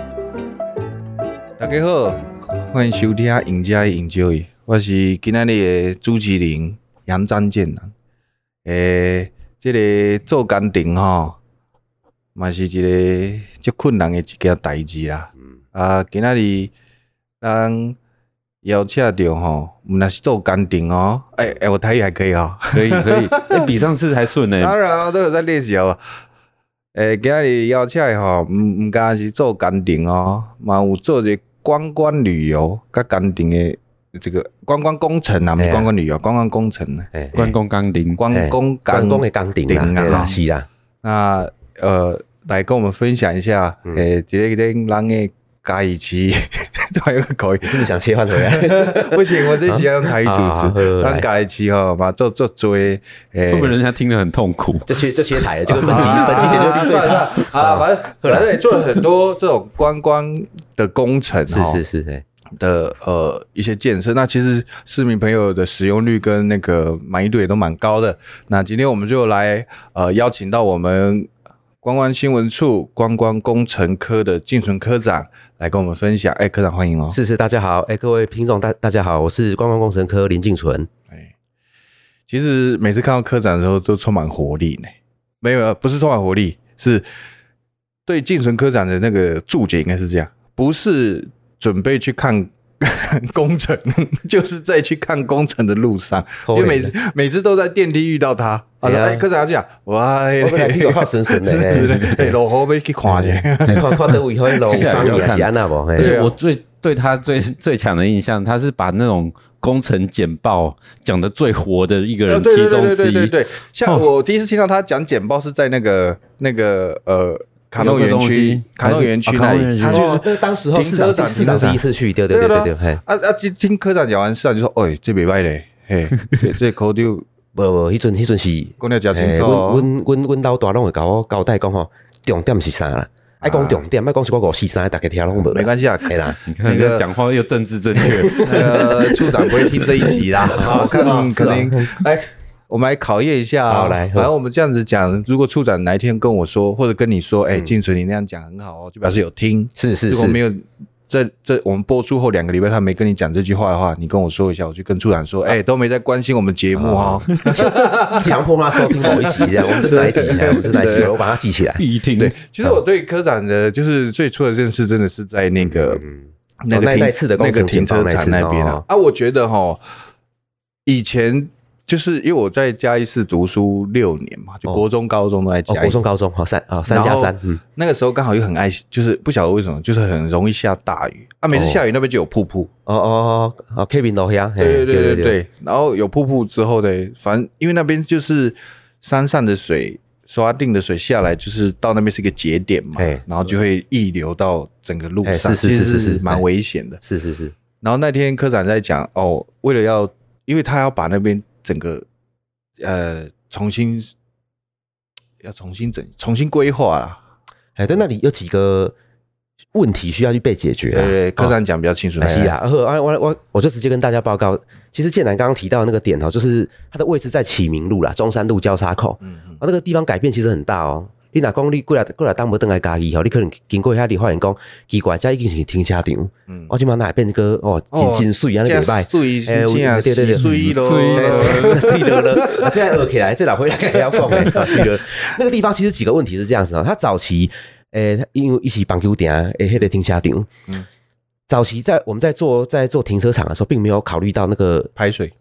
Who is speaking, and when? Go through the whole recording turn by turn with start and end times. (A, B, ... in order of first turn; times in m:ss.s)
0:01.6-0:07.9 A
0:08.6-0:11.4 A
0:12.3-0:16.7 A
0:17.4-0:18.0 A
0:18.6-0:23.8 A
0:22.7-0:24.8 B
0:24.6-0:26.2 A
0:26.9-0:37.6 A
0:35.6-0:35.9 C
0:37.1-0:37.4 C
0:37.3-0:38.2 B
0:38.2-0:40.4 A
0:38.3-0:40.7 C
0:41.0-0:53.8 A
0:47.6-0:51.2 C
0:53.5-0:54.9 B
0:54.9-0:58.4 C
0:55.7-0:57.2 B
0:55.8-1:01.8 A
1:01.5-1:02.2 C
1:02.6-1:11.3 A
1:11.8-1:17.2 A
1:17.1-1:20.9 C
1:22.3-1:27.0 A
1:28.0-1:45.2 A
1:36.4-1:36.9 C
1:38.8-1:39.2 C
1:40.4-1:42.3 C
1:43.1-1:46.2 C
1:44.7-1:53.3 B
1:46.0-1:46.4 A
1:52.3-2:07.2 A
1:57.8-2:00.2 B
1:59.9-2:03.0 C
2:01.2-2:01.8 B
2:07.5-2:16.4 C
2:08.8-2:09.9 A
2:13.4-2:13.8 A
2:15.5-2:17.0 A
2:16.5-2:18.9 B
2:18.0-2:22.0 C
2:18.4-2:41.2 A
2:23.7-2:24.3 C
2:29.8-2:30.4 C
2:36.8-2:42.8 C
2:41.8-2:42.4 B
2:42.4-2:46.0 A
2:45.6-2:48.8 C
2:46.6-2:49.8 A
2:50.8-2:56.0 A
2:55.7-2:57.6 C
2:56.9-3:02.7 A
3:01.5-3:01.8 C
3:02.8-3:05.4 C
3:04.6-3:17.0 A
3:13.0-3:13.2 C
3:15.2-3:16.4 C
3:17.0-3:17.5 C
3:17.8-3:22.0 A
3:22.8-3:24.1 A
3:25.4-3:27.2 A
3:27.8-3:28.9 C
3:29.7-3:31.5 C
3:30.9-3:32.5 A
3:32.2-4:00.5 C
3:39.2-3:39.6 A
3:47.9-3:52.8 A
3:50.4-3:52.2 B
3:54.1-3:54.9 A
4:01.5-4:04.9 C
4:05.0-4:05.3 A